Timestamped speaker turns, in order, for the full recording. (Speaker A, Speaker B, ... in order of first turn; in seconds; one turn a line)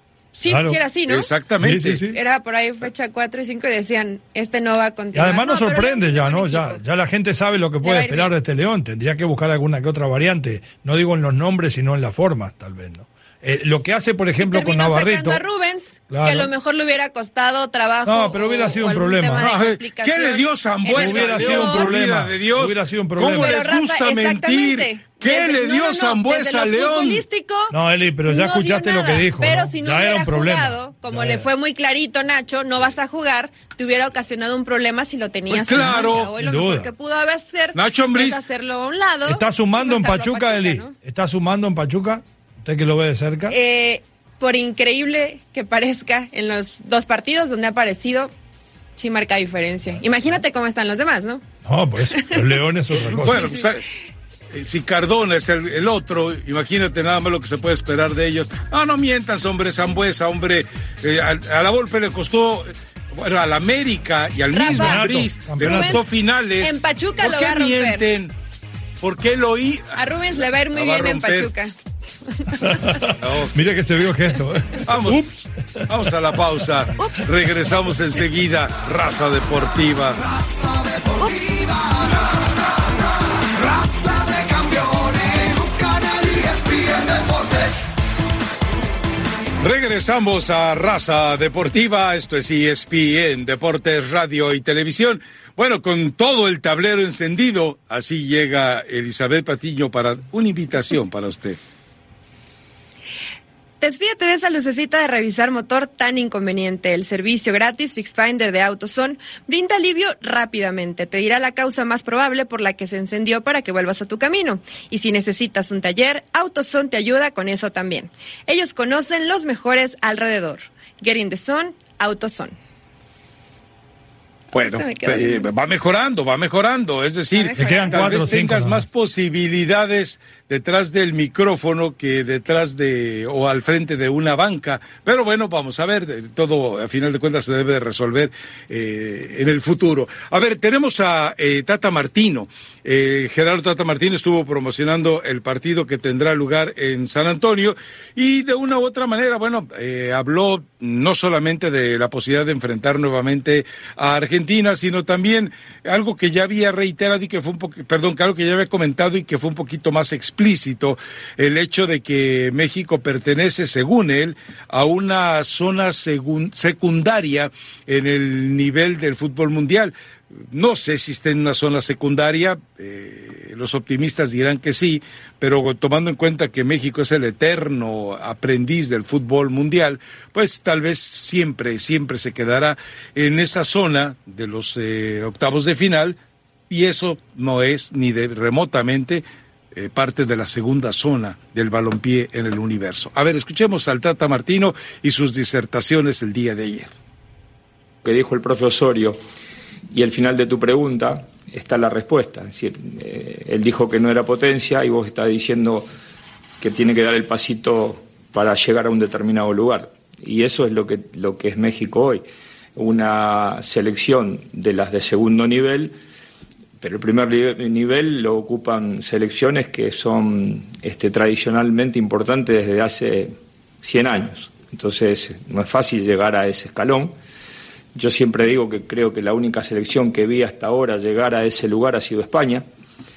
Speaker A: 0.3-1.3
Speaker B: 0.5-0.8
Speaker C: 1.1-2.0
Speaker B: 1.6-2.2
Speaker A: 2.1-6.8
Speaker B: 5.1-15.4
Speaker A: 7.8-8.3
Speaker A: 14.4-21.9
Speaker B: 16.1-16.5
Speaker B: 18.1-19.5
Speaker C: 19.4-27.2
Speaker B: 20.9-23.6
Speaker A: 23.2-40.9
Speaker B: 27.7-31.5
Speaker C: 35.5-36.3
Speaker B: 35.8-36.9
Speaker C: 37.7-38.4
Speaker B: 39.2-43.5
Speaker A: 43.5-48.3
Speaker A: 49.0-51.4
Speaker B: 51.6-53.6
Speaker A: 52.1-52.5
Speaker C: 53.0-53.8
Speaker C: 54.5-68.3
Speaker A: 64.5-66.0
Speaker B: 64.7-66.0
Speaker A: 66.6-68.0
Speaker C: 69.0-70.0
Speaker A: 69.9-71.7
Speaker C: 70.7-71.5
Speaker A: 72.3-73.1
Speaker B: 72.6-76.1
Speaker C: 73.2-73.7
Speaker C: 74.8-80.2
Speaker A: 77.0-77.3
Speaker D: 80.2-82.7
Speaker A: 81.2-81.5
Speaker D: 83.5-87.9
Speaker C: 89.6-101.6
Speaker A: 103.8-122.5
Speaker A: 124.5-125.5
Speaker C: 124.5-169.9
Speaker A: 127.3-128.1
Speaker B: 127.5-128.9
Speaker C: 170.5-186.2
Speaker C: 186.7-196.9
Speaker E: 198.0-199.2
Speaker E: 199.9-205.9
Speaker E: 206.6-212.2
Speaker E: 212.8-215.9
Speaker E: 216.8-227.1
Speaker E: 227.9-232.7